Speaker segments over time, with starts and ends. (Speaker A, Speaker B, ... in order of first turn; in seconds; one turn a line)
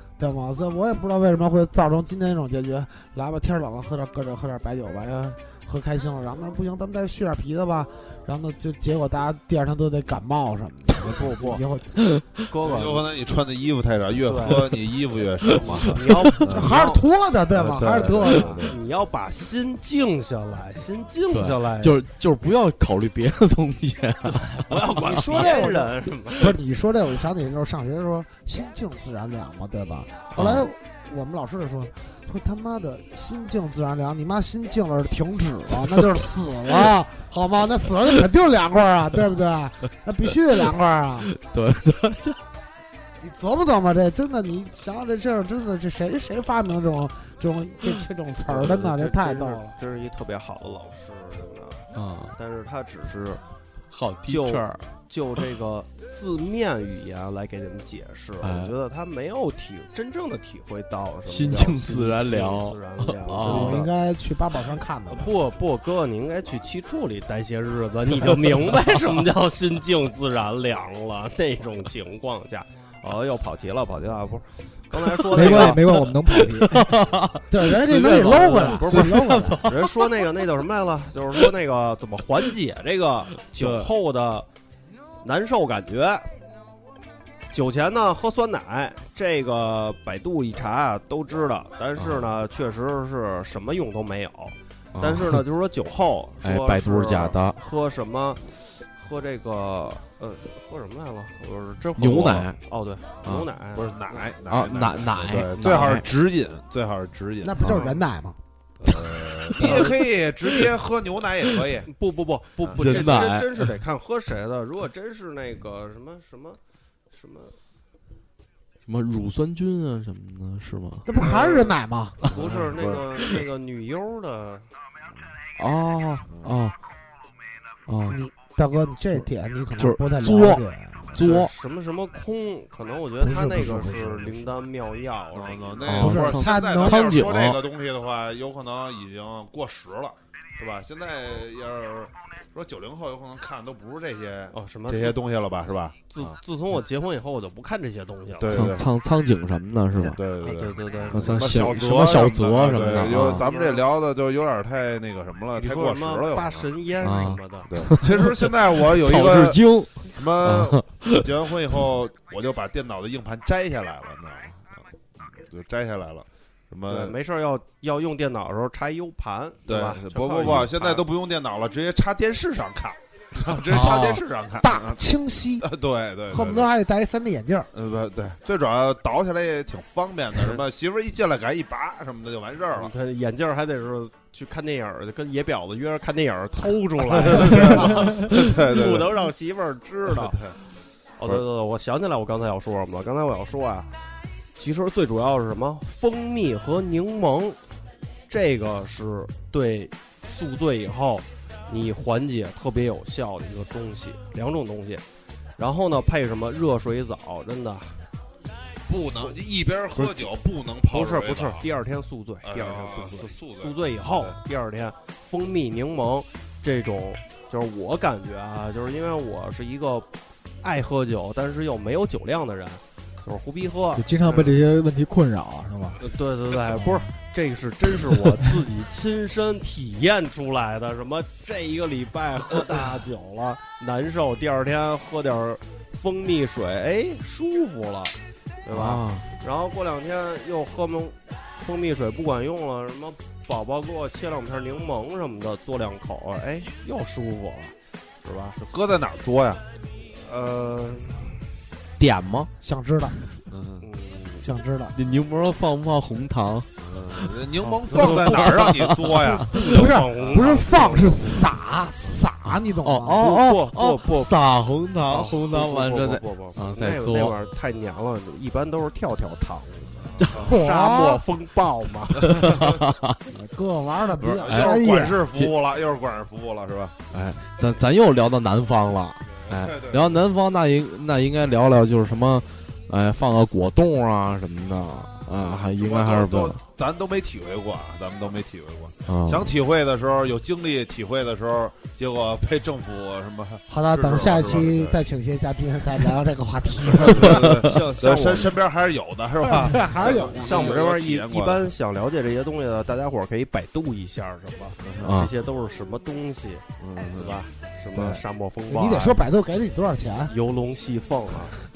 Speaker A: 0.2-12.0
Speaker B: 11.0-11.6
Speaker B: 12.5-13.1
Speaker C: 12.6-16.8
Speaker B: 14.2-14.7
Speaker B: 15.5-17.0
Speaker A: 16.4-18.7
Speaker C: 17.5-18.8
Speaker B: 17.8-22.0
Speaker D: 21.3-25.6
Speaker B: 24.5-26.5
Speaker A: 25.0-41.3
Speaker D: 30.3-30.7
Speaker D: 41.3-42.4
Speaker A: 43.2-49.7
Speaker B: 48.5-53.4
Speaker D: 51.9-52.4
Speaker D: 53.9-54.8
Speaker B: 54.2-63.9
Speaker D: 58.4-58.7
Speaker D: 61.3-63.8
Speaker A: 63.4-65.3
Speaker B: 65.1-76.0
Speaker E: 75.3-76.7
Speaker D: 75.5-80.0
Speaker A: 77.5-79.7
Speaker B: 77.8-84.5
Speaker D: 83.6-83.9
Speaker B: 85.2-86.3
Speaker B: 87.5-104.3
Speaker D: 92.0-92.2
Speaker D: 94.9-95.4
Speaker D: 96.4-97.6
Speaker D: 102.0-102.6
Speaker C: 103.7-107.8
Speaker D: 104.5-106.1
Speaker A: 107.4-108.4
Speaker B: 107.7-107.9
Speaker C: 108.8-111.9
Speaker D: 109.5-109.9
Speaker B: 109.6-109.9
Speaker B: 111.8-116.6
Speaker C: 112.6-113.2
Speaker D: 112.8-113.7
Speaker B: 117.1-117.6
Speaker D: 118.9-121.1
Speaker A: 121.0-122.2
Speaker B: 121.2-124.7
Speaker C: 122.3-123.0
Speaker D: 125.6-126.7
Speaker C: 126.3-126.5
Speaker D: 127.9-128.2
Speaker A: 128.1-131.2
Speaker D: 129.8-131.5
Speaker B: 131.1-136.1
Speaker A: 133.2-134.5
Speaker C: 135.3-146.4
Speaker D: 135.9-137.6
Speaker A: 136.0-137.1
Speaker B: 144.5-145.2
Speaker B: 146.1-148.6
Speaker C: 148.4-148.8
Speaker D: 148.5-150.2
Speaker C: 149.9-156.7
Speaker B: 150.4-153.8
Speaker D: 151.1-153.4
Speaker B: 155.5-157.7
Speaker D: 157.0-161.2
Speaker C: 157.7-167.1
Speaker B: 166.9-171.0
Speaker C: 169.7-175.0
Speaker A: 173.7-175.7
Speaker C: 175.6-176.7
Speaker A: 176.3-177.7
Speaker C: 177.7-182.9
Speaker B: 180.4-180.6
Speaker B: 182.7-190.4
Speaker C: 187.1-189.3
Speaker C: 190.1-190.6
Speaker B: 191.2-193.9
Speaker B: 194.6-197.6
Speaker B: 198.3-205.0
Speaker B: 205.6-208.0
Speaker C: 208.9-211.7
Speaker B: 209.9-210.3
Speaker B: 210.9-220.1
Speaker C: 212.4-214.4
Speaker B: 220.6-224.6
Speaker E: 223.9-226.0
Speaker B: 226.0-248.6
Speaker D: 238.7-239.3
Speaker C: 248.6-249.6
Speaker B: 250.2-251.5
Speaker D: 252.0-252.5
Speaker A: 252.6-253.2
Speaker C: 253.5-253.9
Speaker B: 253.8-254.5
Speaker A: 254.4-255.0
Speaker D: 254.9-257.3
Speaker C: 256.8-259.6
Speaker B: 257.6-258.5
Speaker D: 257.9-259.6
Speaker B: 259.5-261.5
Speaker A: 259.5-263.4
Speaker C: 260.2-260.6
Speaker D: 262.8-267.4
Speaker B: 263.2-264.3
Speaker B: 265.1-272.5
Speaker C: 270.0-270.6
Speaker A: 270.4-271.2
Speaker D: 272.2-273.2
Speaker C: 272.4-272.8
Speaker A: 273.3-275.3
Speaker D: 274.2-274.8
Speaker C: 274.4-277.0
Speaker D: 277.1-286.6
Speaker C: 279.3-280.2
Speaker C: 285.4-295.0
Speaker D: 289.1-289.5
Speaker A: 293.7-297.5
Speaker C: 296.8-301.7
Speaker B: 297.2-298.6
Speaker D: 297.3-297.6
Speaker A: 299.4-300.8
Speaker B: 300.0-309.3
Speaker C: 304.8-305.1
Speaker D: 305.0-305.3
Speaker C: 306.8-307.4
Speaker A: 308.7-310.3
Speaker B: 310.3-311.6